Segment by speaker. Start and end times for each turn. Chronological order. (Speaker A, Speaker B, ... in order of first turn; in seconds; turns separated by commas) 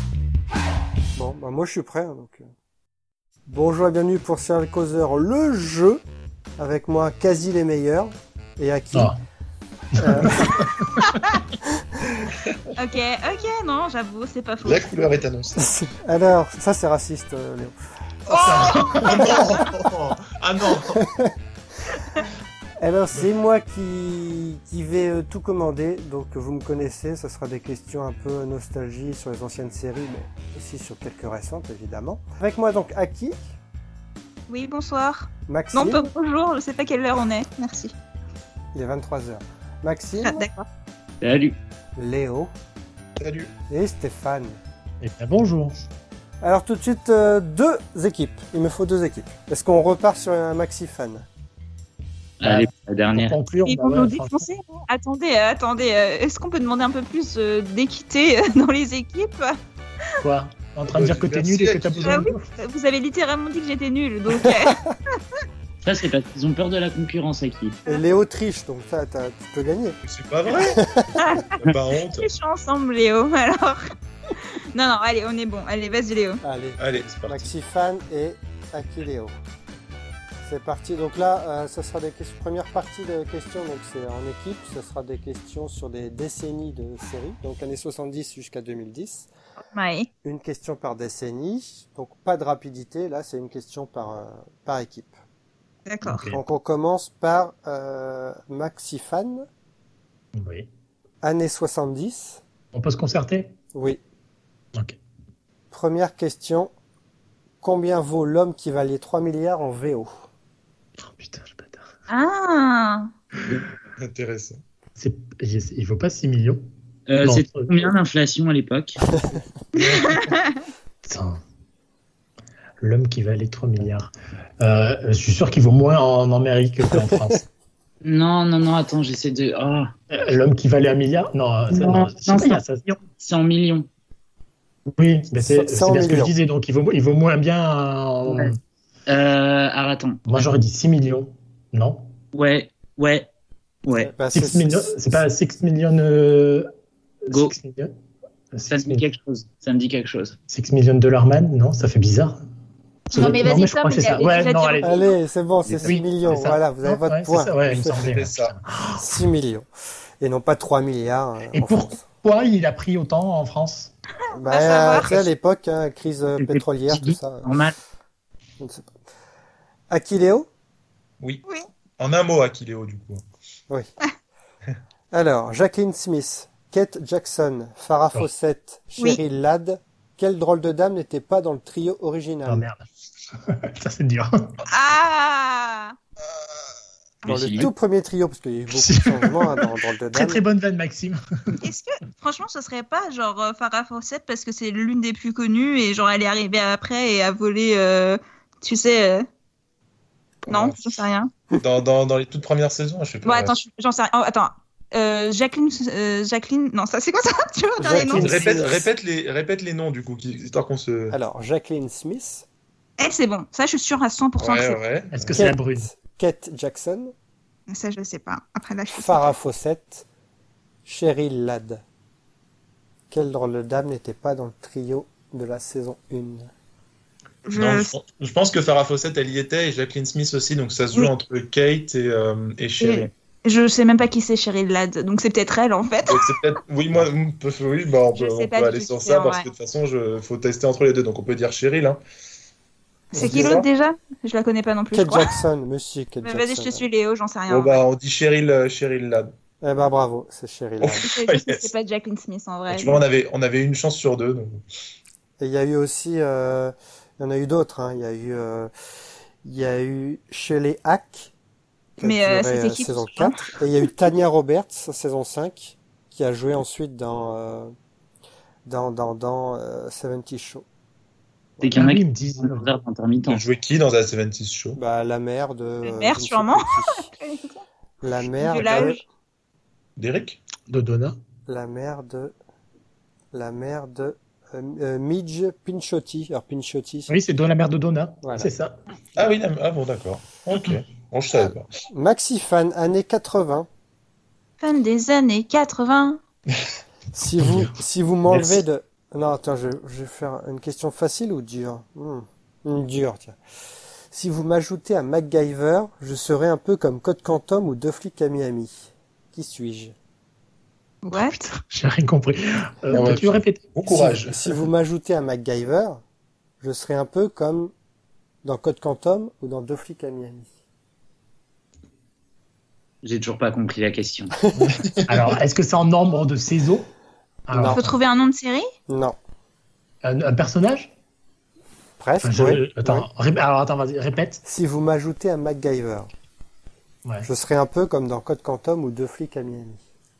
Speaker A: 1.1-2.5, Speaker A: 3.5-6.0, Speaker A: 6.6-9.2, Speaker B: 8.9-9.2, Speaker B: 9.9-11.2, Speaker A: 10.0-10.6, Speaker C: 11.1-11.4, Speaker A: 12.0-12.3, Speaker C: 12.8-14.9, Speaker D: 14.6-15.7, Speaker A: 15.6-17.8, Speaker D: 18.3-21.1, Speaker B: 18.3-19.2, Speaker A: 19.2-19.9, Speaker A: 20.8-21.3, Speaker A: 22.8-33.4, Speaker C: 34.5-37.9, Speaker A: 35.5-36.1, Speaker A: 38.7-40.5, Speaker C: 40.2-40.6, Speaker E: 41.2-41.5, Speaker A: 42.0-42.5, Speaker D: 43.2-43.5, Speaker A: 43.7-44.6, Speaker B: 45.0-45.7, Speaker A: 46.4-51.2, Speaker E: 52.4-53.4, Speaker B: 52.4-54.5, Speaker C: 53.6-59.5, Speaker B: 60.2-62.5, Speaker D: 60.9-62.2, Speaker C: 62.0-64.8, Speaker A: 64.3-65.0, Speaker E: 65.8-67.8, Speaker A: 67.9-70.0, Speaker D: 70.0-72.3, Speaker A: 70.5-71.3, Speaker C: 71.2-73.9, Speaker C: 74.7-76.4, Speaker A: 76.4-79.3, Speaker D: 76.8-77.5, Speaker A: 80.4-89.3, Speaker C: 89.7-90.1, Speaker A: 90.2-95.2, Speaker C: 95.9-96.3, Speaker B: 96.0-96.4, Speaker A: 96.2-99.5, Speaker B: 100.3-100.7, Speaker A: 101.2-102.4, Speaker B: 102.7-103.5, Speaker A: 103.7-104.0, Speaker A: 105.7-106.7, Speaker A: 107.6-110.1, Speaker B: 111.0-111.9, Speaker C: 112.1-113.1, Speaker D: 114.0-114.6, Speaker B: 115.0-116.7, Speaker E: 117.1-119.0, Speaker B: 117.2-117.9, Speaker C: 119.8-120.6, Speaker B: 119.8-120.2, Speaker B: 121.0-121.4, Speaker B: 122.8-127.4, Speaker A: 126.9-127.4, Speaker E: 128.0-129.9, Speaker B: 130.1-133.0, Speaker E: 131.7-132.6, Speaker E: 133.2-133.9, Speaker B: 135.0-138.5, Speaker A: 135.3-136.3, Speaker E: 138.2-138.5, Speaker E: 139.1-140.2, Speaker B: 140.3-142.1, Speaker E: 142.3-143.3, Speaker E: 143.8-144.1, Speaker A: 144.0-145.2, Speaker B: 144.3-146.7, Speaker B: 147.2-147.9, Speaker E: 147.3-147.5, Speaker B: 148.5-149.0, Speaker E: 148.7-150.4, Speaker B: 150.5-152.4, Speaker B: 153.1-155.0, Speaker C: 153.1-155.2, Speaker A: 154.8-157.9, Speaker E: 155.7-156.0, Speaker B: 155.8-159.0, Speaker D: 158.0-158.6, Speaker A: 158.9-159.7, Speaker A: 160.2-162.0, Speaker B: 161.5-163.9, Speaker C: 164.3-165.1, Speaker A: 164.3-167.5, Speaker D: 165.0-165.2, Speaker E: 166.4-167.8, Speaker A: 168.6-168.9, Speaker A: 169.9-170.5, Speaker D: 172.0-173.2, Speaker A: 175.1-182.7, Speaker B: 182.5-184.6, Speaker C: 184.7-185.9, Speaker E: 187.2-187.7, Speaker A: 187.2-190.4, Speaker B: 188.7-191.5, Speaker C: 191.6-199.2, Speaker C: 200.5-201.3, Speaker D: 200.5-200.8, Speaker D: 201.6-203.6, Speaker C: 203.2-208.5, Speaker A: 207.8-208.8, Speaker D: 208.1-211.2, Speaker A: 211.1-212.4, Speaker C: 213.0-214.8, Speaker D: 214.4-215.5, Speaker B: 215.1-215.9, Speaker A: 215.3-217.1, Speaker C: 217.7-219.3, Speaker A: 218.9-220.1, Speaker A: 220.8-221.8, Speaker A: 223.1-226.5, Speaker C: 227.4-227.9, Speaker D: 227.5-233.1, Speaker C: 232.8-236.4, Speaker D: 236.1-242.0, Speaker C: 238.1-239.5, Speaker D: 243.1-243.7, Speaker A: 243.1-243.6, Speaker C: 243.1-245.4, Speaker A: 244.9-246.8, Speaker C: 246.2-247.8, Speaker D: 247.5-249.3, Speaker A: 249.6-251.1, Speaker D: 250.8-251.7, Speaker C: 251.0-253.0, Speaker D: 252.7-254.6, Speaker A: 255.4-258.7, Speaker A: 259.4-261.3, Speaker A: 262.0-267.7, Speaker C: 262.0-263.6, Speaker A: 268.6-270.6, Speaker A: 271.6-271.8, Speaker E: 271.6-273.5, Speaker B: 271.7-272.7, Speaker D: 273.3-274.8, Speaker A: 274.8-277.1, Speaker C: 275.8-277.6, Speaker A: 278.0-279.0, Speaker C: 278.4-279.0, Speaker D: 280.0-280.4, Speaker B: 280.7-281.2, Speaker A: 281.5-282.3, Speaker A: 283.3-287.1, Speaker B: 287.1-288.8, Speaker A: 288.2-288.5, Speaker D: 289.1-291.7, Speaker A: 291.3-293.7, Speaker C: 294.6-296.2, Speaker A: 297.1-303.4, Speaker B: 297.4-298.6, Speaker A: 304.1-309.9, Speaker C: 311.0-311.4, Speaker B: 311.1-314.3, Speaker D: 312.9-314.5, Speaker A: 314.2-316.0, Speaker A: 316.6-317.7, Speaker A: 318.4-320.5, Speaker E: 323.0-324.3, Speaker A: 324.4-324.8, Speaker B: 325.1-326.9, Speaker B: 327.5-328.0, Speaker A: 327.5-327.8, Speaker C: 327.6-328.7, Speaker A: 328.9-329.1, Speaker B: 330.0-330.9, Speaker A: 332.0-333.1, Speaker B: 332.2-334.4, Speaker A: 334.4-336.1, Speaker A: 337.2-339.8